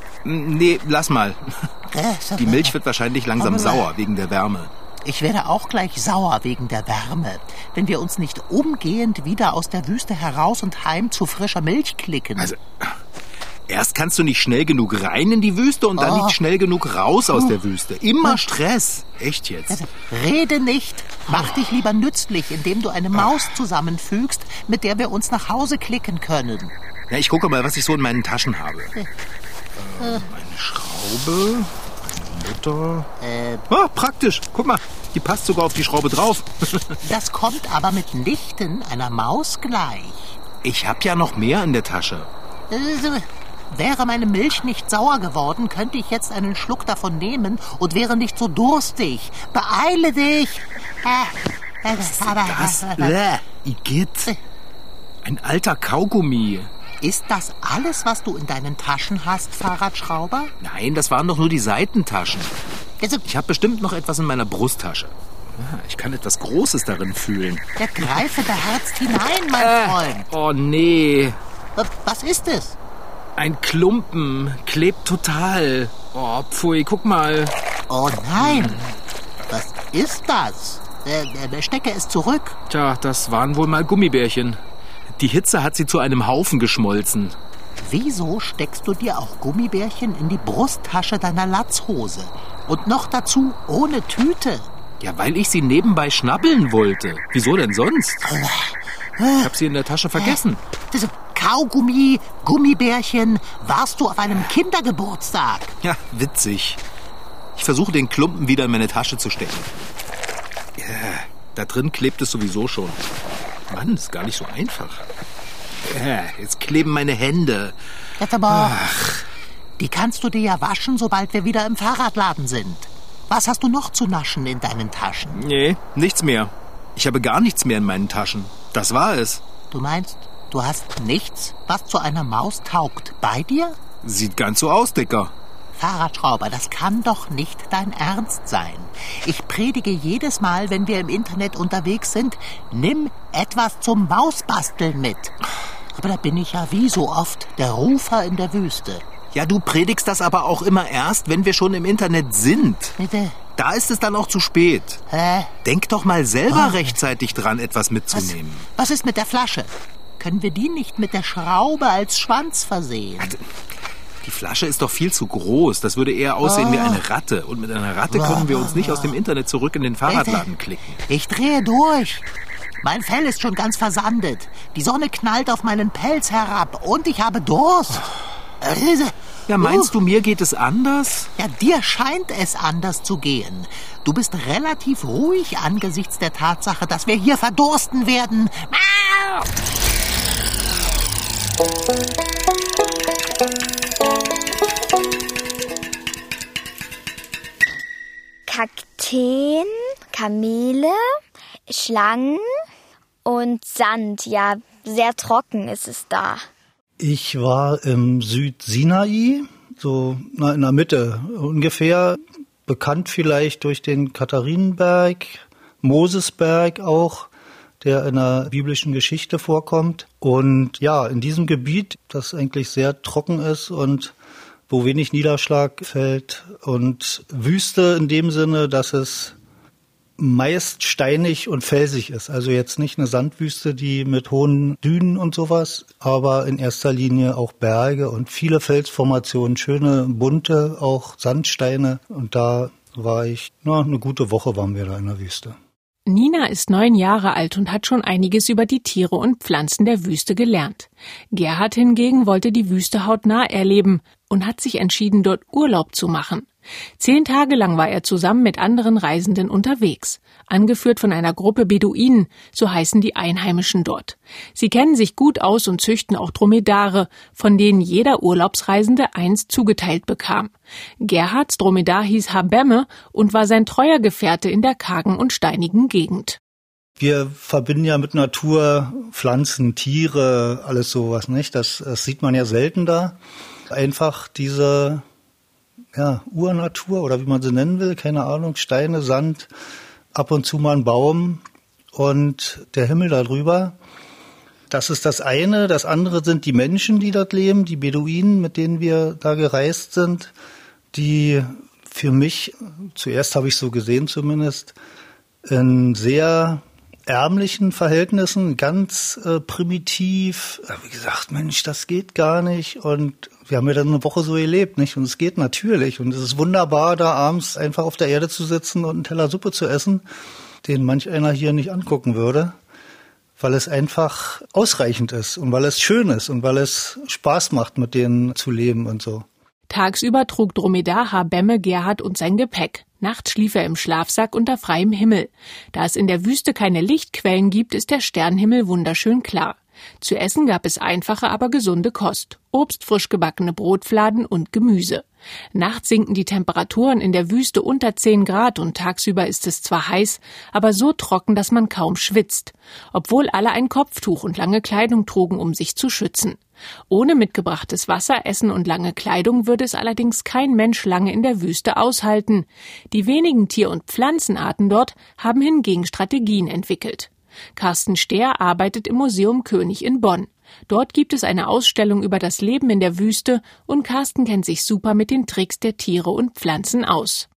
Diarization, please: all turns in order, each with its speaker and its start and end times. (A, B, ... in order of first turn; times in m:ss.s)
0:00.2-0:01.7 A
0:01.9-0:02.8 B
0:02.4-0:04.7 A
0:03.4-0:03.8 B
0:05.0-0:12.5 B
0:12.4-0:13.0 A
0:13.7-0:19.8 A
0:16.0-0:16.4 B
0:19.7-0:26.7 B
0:21.3-0:21.6 A
0:23.2-0:23.5 A
0:27.1-0:28.9 A
0:29.8-0:33.1 A
0:30.0-0:30.2 B
0:33.2-0:33.6 B
0:33.7-0:37.0 A
0:37.0-0:40.4 B
0:40.6-0:42.3 A
0:42.7-0:53.4 B
0:52.0-0:54.3 A
0:55.2-0:56.7 A
0:57.0-1:00.5 B
1:00.6-1:02.5 A
1:03.2-1:07.6 A
1:07.8-1:10.3 B
1:09.6-1:11.4 A
1:11.8-1:12.8 B
1:13.4-1:17.5 A
1:17.9-1:18.8 B
1:18.4-1:18.9 A
1:19.5-1:22.6 B
1:22.7-1:24.6 A
1:25.2-1:27.4 A
1:27.8-1:34.7 B
1:35.0-1:38.2 A
1:38.2-1:39.5 B
1:39.4-1:40.6 A
1:40.1-1:45.8 B
1:45.8-1:46.8 A
1:47.6-1:49.7 A
1:50.8-1:53.0 A
1:53.7-1:55.1 A
1:55.8-1:57.8 A
1:58.2-1:58.8 B
1:58.5-1:59.2 A
1:59.8-2:05.4 B
2:05.4-2:09.4 A
2:09.7-2:13.8 B
2:14.0-2:15.3 A
2:15.8-2:25.4 B
2:25.9-2:29.0 B
2:29.3-2:33.0 A
2:33.0-2:33.4 B
2:33.6-2:35.0 A
2:35.1-2:35.5 B
2:35.6-2:38.7 A
2:36.5-2:36.9 B
2:38.1-2:43.4 B
2:44.2-2:51.0 A
2:46.4-2:47.0 B
2:48.1-2:49.2 B
2:50.0-2:50.4 B
2:51.1-2:52.2 B
2:52.8-2:59.9 B
2:59.5-3:01.3 A
3:01.4-3:09.4 B
3:18.5-3:21.0 C
3:21.7-3:22.4 C
3:23.2-3:26.4 C
3:27.0-3:37.3 D
3:37.8-3:44.1 D
3:44.7-3:49.4 D
3:50.2-4:05.6 D
4:06.1-4:36.4 E
4:37.0-4:43.2 D
4:43.7-4:45.0 D
4:45.9-4:49.5 D
4:50.1-4:51.4 D
4:51.9-4:53.8 D
4:54.7-5:00.3 D
5:00.9-5:04.8 D
5:05.4-5:20.0 D
5:20.6-5:22.6 D
5:23.4-5:29.3 D
5:29.7-6:17.3 E